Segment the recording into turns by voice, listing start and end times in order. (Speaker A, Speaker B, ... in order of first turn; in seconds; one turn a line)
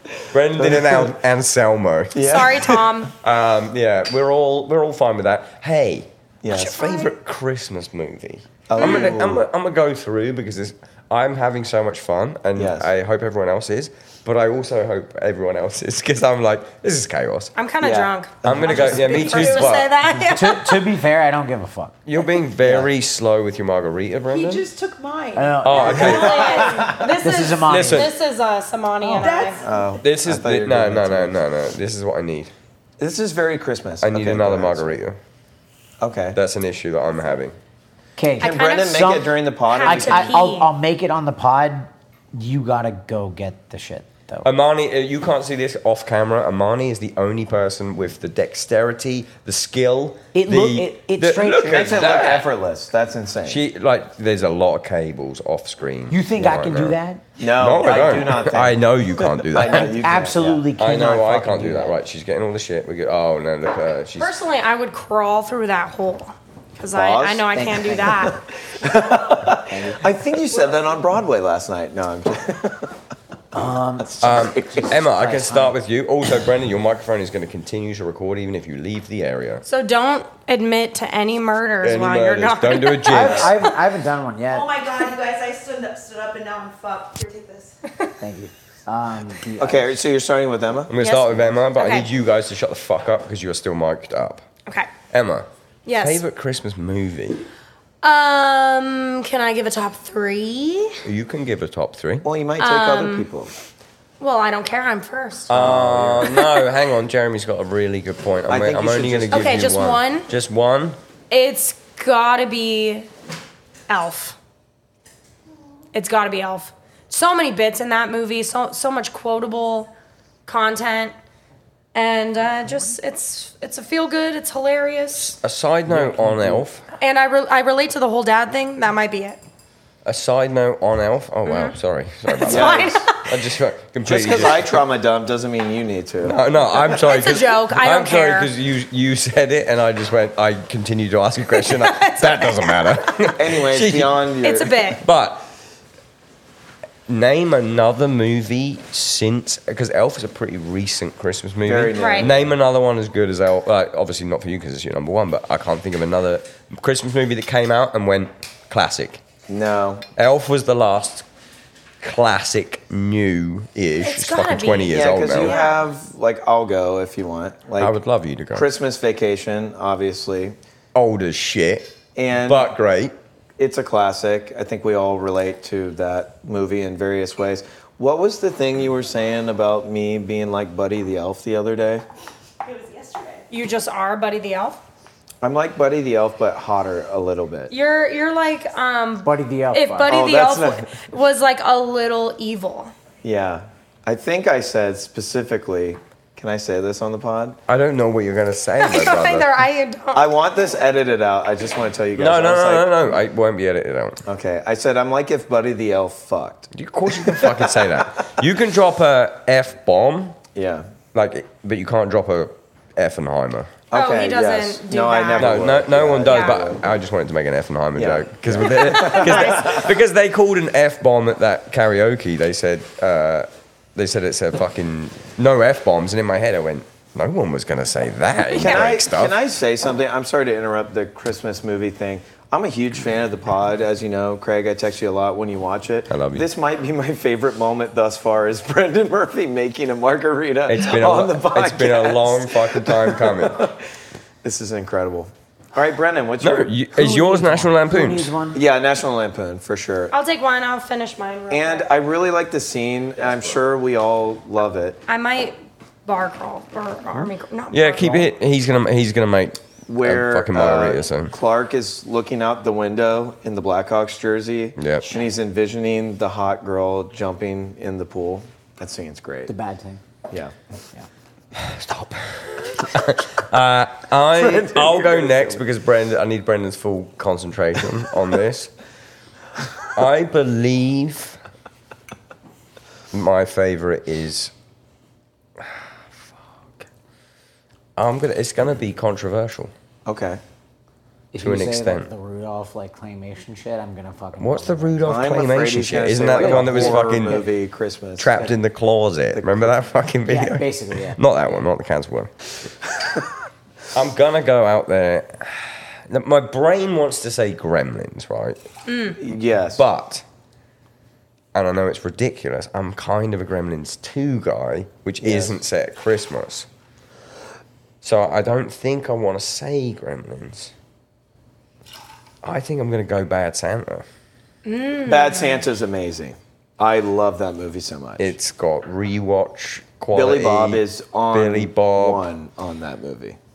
Speaker A: 0.3-2.2
Speaker B: 0.6-1.1
Speaker B: 2.1-2.9
Speaker C: 2.2-3.1
Speaker A: 3.2-17.5
Speaker B: 6.4-6.8
Speaker D: 6.8-7.1
Speaker B: 8.7-9.4
Speaker C: 8.8-9.1
Speaker B: 12.6-12.9
Speaker C: 17.5-20.8
Speaker B: 17.8-19.3
Speaker A: 18.4-19.9
Speaker D: 18.6-19.8
Speaker E: 20.2-22.0
Speaker A: 22.1-24.6
Speaker B: 22.6-22.9
Speaker D: 24.3-27.0
Speaker E: 25.3-26.5
Speaker A: 25.6-26.6
Speaker C: 25.8-29.6
Speaker B: 25.9-27.1
Speaker E: 27.2-28.1
Speaker A: 27.6-28.1
Speaker E: 29.0-29.4
Speaker D: 29.2-30.0
Speaker B: 29.6-31.4
Speaker A: 30.0-32.5
Speaker B: 33.0-35.0
Speaker A: 34.0-35.2
Speaker B: 36.0-36.4
Speaker A: 36.3-37.5
Speaker E: 38.2-44.5
Speaker B: 38.4-40.4
Speaker C: 38.4-40.7
Speaker A: 44.4-52.5
Speaker E: 50.3-52.0
Speaker B: 51.6-53.6
Speaker A: 53.5-57.0
Speaker E: 56.1-57.2
Speaker B: 57.4-60.7
Speaker A: 57.5-60.0
Speaker E: 59.6-62.0
Speaker A: 60.8-64.3
Speaker C: 64.2-68.4
Speaker B: 66.9-67.5
Speaker E: 67.5-68.3
Speaker B: 68.8-72.9
Speaker E: 69.7-70.1
Speaker E: 73.5-75.7
Speaker B: 74.0-74.9
Speaker A: 74.2-79.6
Speaker C: 79.7-83.8
Speaker A: 81.8-83.6
Speaker E: 83.1-84.7
Speaker D: 84.5-87.8
Speaker E: 88.2-90.0
Speaker B: 89.6-91.0
Speaker A: 90.9-94.4
Speaker C: 91.0-92.1
Speaker A: 95.1-97.4
Speaker C: 95.8-96.2
Speaker C: 98.0-101.0
Speaker A: 101.0-102.3
Speaker B: 102.2-103.5
Speaker C: 102.6-103.3
Speaker C: 104.2-105.5
Speaker A: 105.5-111.0
Speaker B: 105.5-106.4
Speaker B: 108.5-109.6
Speaker C: 109.3-110.3
Speaker C: 111.3-113.1
Speaker C: 113.9-114.4
Speaker C: 115.9-119.9
Speaker C: 120.5-121.1
Speaker C: 121.9-125.3
Speaker A: 125.2-126.8
Speaker B: 125.9-126.6
Speaker C: 127.0-129.4
Speaker A: 130.0-134.8
Speaker C: 131.4-131.8
Speaker C: 132.3-133.3
Speaker B: 132.4-133.0
Speaker B: 134.1-136.4
Speaker A: 136.2-144.2
Speaker C: 136.8-138.5
Speaker C: 141.6-142.7
Speaker B: 143.3-145.0
Speaker C: 144.4-145.0
Speaker A: 145.0-145.4
Speaker A: 147.1-159.2
Speaker B: 151.6-152.5
Speaker C: 151.9-152.3
Speaker B: 159.5-160.1
Speaker A: 160.2-161.2
Speaker A: 162.0-165.6
Speaker C: 164.0-165.8
Speaker B: 164.9-168.0
Speaker D: 165.4-165.8
Speaker A: 167.8-168.7
Speaker B: 168.5-170.6
Speaker A: 170.9-171.9
Speaker B: 172.2-172.7
Speaker A: 172.4-173.1
Speaker B: 173.6-182.0
Speaker D: 182.6-183.4
Speaker C: 183.5-184.8
Speaker B: 185.4-187.7
Speaker C: 187.7-192.9
Speaker E: 189.2-190.1
Speaker B: 190.1-190.9
Speaker B: 193.2-197.6
Speaker A: 197.7-199.5
Speaker C: 198.8-200.3
Speaker B: 200.1-202.9
Speaker A: 202.2-204.2
Speaker B: 204.2-208.3
Speaker A: 206.7-210.4
Speaker B: 210.5-210.8
Speaker A: 211.1-213.7
Speaker B: 213.9-216.9
Speaker C: 213.9-215.7
Speaker A: 215.4-229.3
Speaker C: 216.2-216.6
Speaker B: 217.9-219.9
Speaker C: 218.7-219.9
Speaker B: 228.5-243.8
Speaker A: 236.1-236.5
Speaker A: 240.7-243.7
Speaker B: 244.4-246.8
Speaker A: 246.4-248.3
Speaker E: 246.9-248.6
Speaker B: 248.5-250.1
Speaker C: 250.1-251.9
Speaker B: 251.5-255.0
Speaker C: 255.1-258.3
Speaker A: 257.7-261.3
Speaker B: 259.9-269.5
Speaker A: 264.8-265.1
Speaker E: 269.5-270.0
Speaker B: 270.3-270.5
Speaker A: 271.5-278.7
Speaker B: 274.3-275.6
Speaker A: 279.9-281.4
Speaker A: 283.1-284.5
Speaker A: 288.0-289.7
Speaker B: 290.0-290.4
Speaker E: 291.3-295.2
Speaker A: 291.4-292.1
Speaker A: 294.4-297.4
Speaker B: 295.0-298.5
Speaker E: 296.3-297.5
Speaker A: 298.2-302.3
Speaker B: 299.3-299.8
Speaker E: 300.2-301.2
Speaker A: 303.9-308.6
Speaker C: 308.9-309.2
Speaker B: 309.2-309.8
Speaker A: 309.7-310.2
Speaker A: 311.5-316.7
Speaker B: 315.2-315.6
Speaker A: 318.0-320.7
Speaker A: 322.4-324.0
Speaker C: 324.6-325.6
Speaker B: 325.0-328.3
Speaker A: 328.2-332.3
Speaker B: 330.1-333.4